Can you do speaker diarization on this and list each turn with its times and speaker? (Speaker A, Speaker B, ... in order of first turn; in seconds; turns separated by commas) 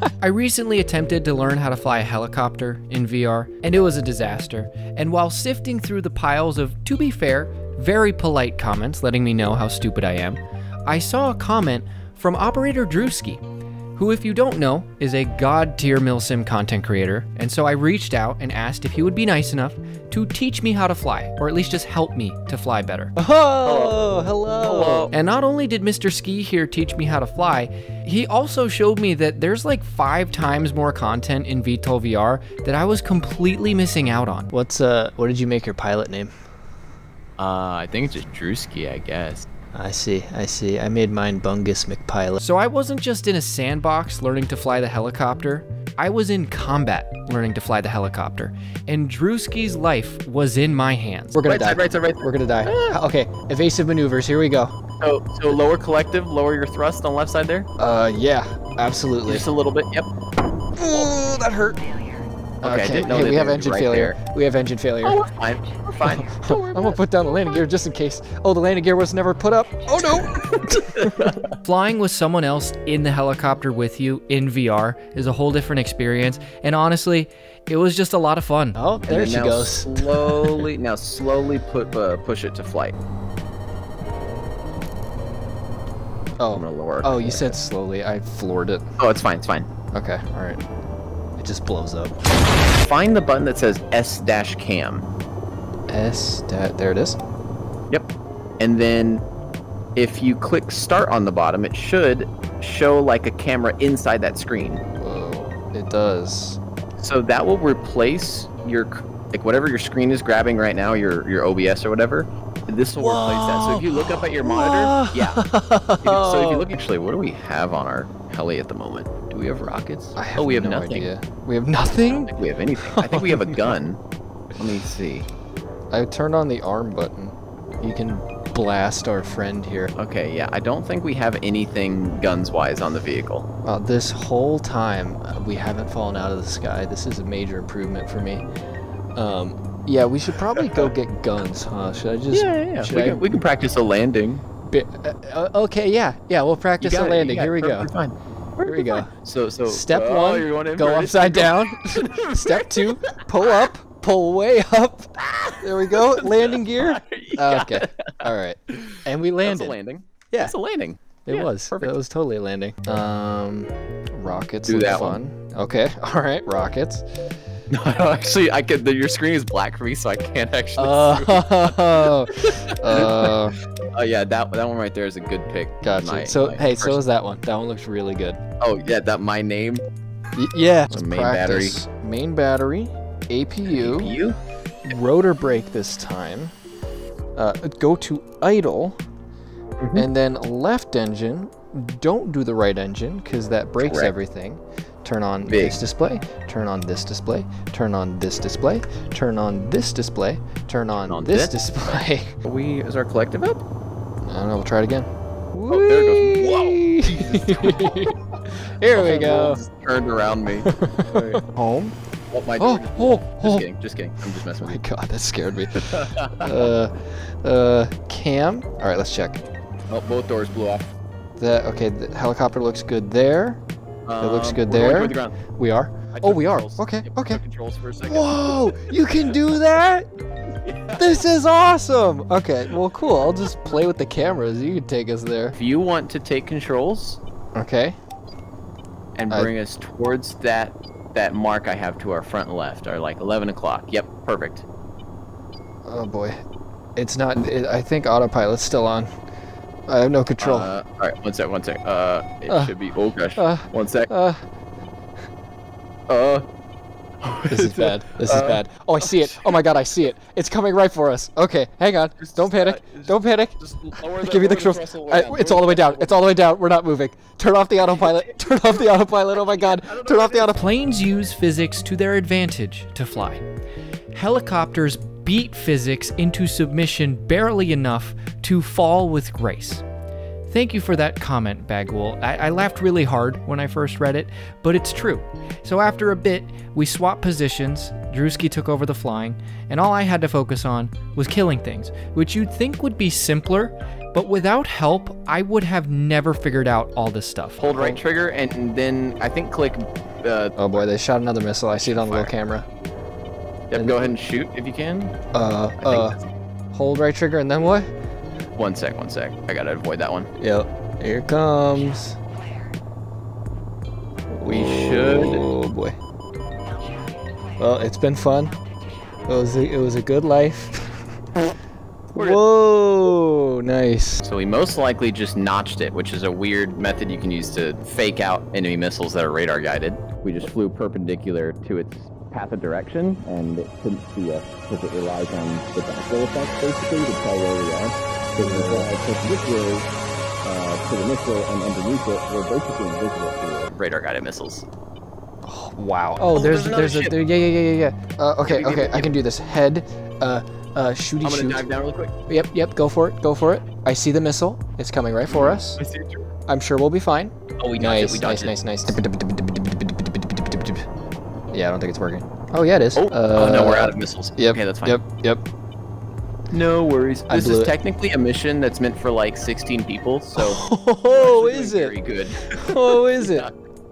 Speaker A: 0.2-13.4, Speaker A: 13.9-23.1, Speaker B: 23.2-25.1, Speaker C: 23.6-24.0, Speaker C: 24.6-25.1, Speaker A: 25.1-34.5, Speaker B: 34.5-36.3, Speaker C: 37.4-39.5, Speaker B: 39.7-42.4, Speaker A: 42.4-51.4, Speaker B: 51.3-54.7, Speaker C: 51.4-53.0, Speaker C: 55.0-57.7, Speaker B: 57.8-59.5, Speaker C: 59.3-60.1, Speaker B: 60.7-61.8, Speaker B: 62.6-65.2, Speaker C: 62.6-64.2, Speaker C: 65.0-67.0, Speaker B: 66.0-71.3, Speaker C: 70.6-71.4, Speaker A: 71.6-78.8, Speaker B: 78.8-80.7, Speaker C: 79.1-82.9, Speaker B: 86.4-88.8, Speaker C: 86.5-87.6, Speaker C: 89.0-89.7, Speaker B: 89.9-90.6, Speaker B: 91.4-92.2, Speaker C: 92.7-95.1, Speaker B: 95.9-97.2, Speaker C: 98.6-99.2, Speaker C: 100.0-104.8, Speaker B: 105.0-106.6, Speaker C: 107.0-115.4, Speaker B: 113.0-116.7, Speaker C: 116.0-119.2, Speaker A: 119.3-120.2, Speaker B: 120.2-123.8, Speaker C: 120.3-121.1, Speaker C: 122.0-124.0, Speaker C: 124.5-125.3, Speaker B: 125.9-129.9, Speaker C: 129.9-133.4, Speaker B: 133.6-138.4, Speaker B: 139.2-143.2, Speaker C: 142.3-144.4, Speaker B: 144.7-147.9, Speaker C: 146.8-153.7, Speaker B: 148.6-149.1, Speaker B: 149.7-159.7, Speaker C: 155.2-158.3, Speaker C: 159.4-161.9, Speaker B: 161.2-167.0, Speaker C: 164.7-165.2, Speaker C: 167.7-177.0, Speaker B: 170.8-173.6, Speaker B: 175.8-178.4, Speaker C: 178.6-179.8, Speaker B: 180.3-184.2, Speaker C: 180.9-181.8, Speaker C: 183.7-184.4, Speaker B: 184.8-186.5, Speaker B: 187.3-189.0, Speaker C: 189.8-190.1, Speaker B: 189.9-202.3, Speaker C: 193.8-194.1, Speaker C: 195.4-195.8, Speaker C: 201.0-203.6, Speaker B: 204.2-209.6, Speaker C: 205.7-208.1, Speaker C: 208.9-211.4, Speaker B: 210.6-211.9, Speaker C: 212.3-214.8, Speaker B: 212.6-213.7, Speaker B: 214.6-219.4, Speaker C: 215.8-216.7, Speaker C: 219.9-220.9, Speaker B: 221.4-223.6, Speaker C: 224.1-225.4, Speaker B: 224.2-227.4, Speaker C: 226.1-229.4, Speaker B: 228.0-230.1, Speaker C: 230.6-231.2, Speaker B: 231.0-235.6, Speaker C: 235.5-237.2, Speaker B: 237.5-237.9, Speaker C: 239.2-244.6, Speaker B: 245.8-246.3, Speaker B: 246.9-249.1, Speaker B: 249.9-250.7, Speaker C: 250.4-254.1, Speaker B: 253.3-254.4, Speaker C: 256.1-256.5, Speaker C: 257.2-259.6, Speaker B: 257.5-263.6, Speaker C: 262.2-266.3, Speaker B: 264.2-270.6, Speaker C: 268.0-268.7, Speaker C: 269.3-270.5, Speaker A: 270.5-273.4, Speaker A: 274.1-279.8, Speaker A: 280.5-297.6, Speaker C: 297.6-300.5, Speaker B: 297.7-298.0, Speaker B: 300.6-302.7, Speaker C: 301.8-302.3, Speaker C: 303.7-305.1, Speaker B: 303.7-304.1, Speaker B: 305.3-306.2, Speaker C: 305.8-306.2, Speaker B: 306.7-307.9, Speaker C: 308.6-310.3, Speaker B: 310.4-312.2, Speaker B: 314.3-315.9, Speaker C: 314.4-315.4, Speaker B: 317.6-318.5, Speaker B: 319.3-321.0, Speaker C: 322.1-322.4, Speaker B: 322.1-324.2, Speaker C: 324.2-339.9, Speaker B: 338.4-338.9, Speaker C: 340.4-344.6, Speaker B: 345.4-351.7, Speaker C: 346.2-347.1, Speaker C: 348.4-349.1, Speaker C: 351.2-352.1, Speaker B: 352.3-355.8, Speaker C: 355.3-356.3, Speaker B: 356.5-360.8, Speaker C: 357.6-359.0, Speaker B: 361.5-365.4, Speaker C: 362.9-365.0, Speaker C: 366.5-373.5, Speaker B: 367.3-367.7, Speaker B: 370.4-372.0, Speaker B: 372.5-373.5